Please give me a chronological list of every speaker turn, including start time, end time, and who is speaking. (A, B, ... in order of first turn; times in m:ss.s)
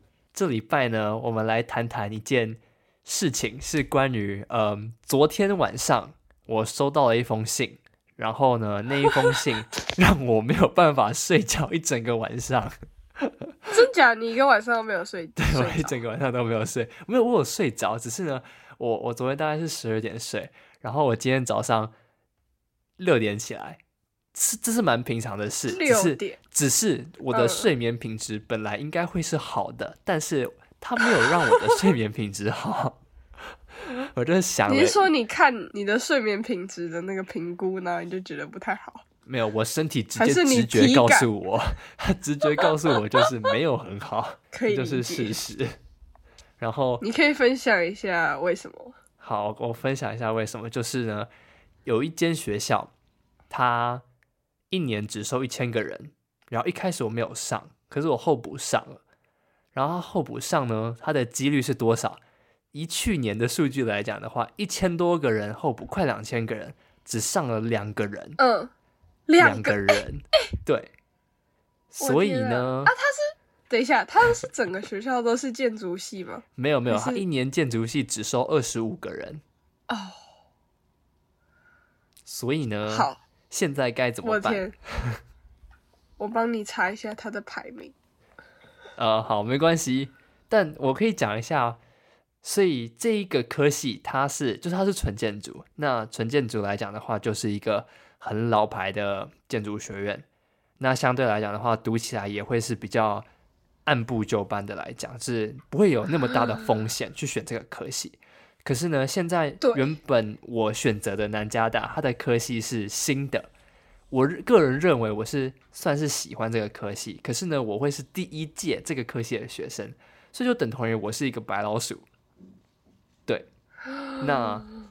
0:00.3-0:13.5 A
0:13.7-0:16.0 B
0:15.4-0:21.9 A
0:23.0-0:23.8 A
0:24.3-0:33.0 A
0:25.7-0:26.4 B
0:27.3-0:27.7 B
0:34.1-0:35.1 A
0:34.7-0:39.0 B
0:39.3-0:45.7 A
0:40.2-0:41.3 B
0:44.5-0:45.4 B
0:46.6-0:47.0 A
0:47.0-0:49.0 B
0:49.2-0:51.3 A
0:51.8-0:52.9 A
0:53.5-0:54.0 A
0:54.7-0:59.0 A
0:59.7-1:02.2 A
1:02.7-1:08.4 A
1:08.4-1:08.7 B
1:09.3-1:10.0 B
1:09.4-1:10.9 A
1:11.9-1:12.9 A
1:12.0-1:17.2 B
1:16.6-1:19.4 A
1:19.9-1:20.2 B
1:22.3-1:25.2 A
1:22.9-1:23.2 B
1:24.2-1:24.7 B
1:26.2-1:27.9 B
1:29.0-1:31.8 A
1:32.4-1:40.2 A
1:40.8-1:43.3 A
1:43.9-1:53.5 A
1:49.6-1:49.9 B
1:54.1-2:02.1 A
2:04.2-2:04.7 A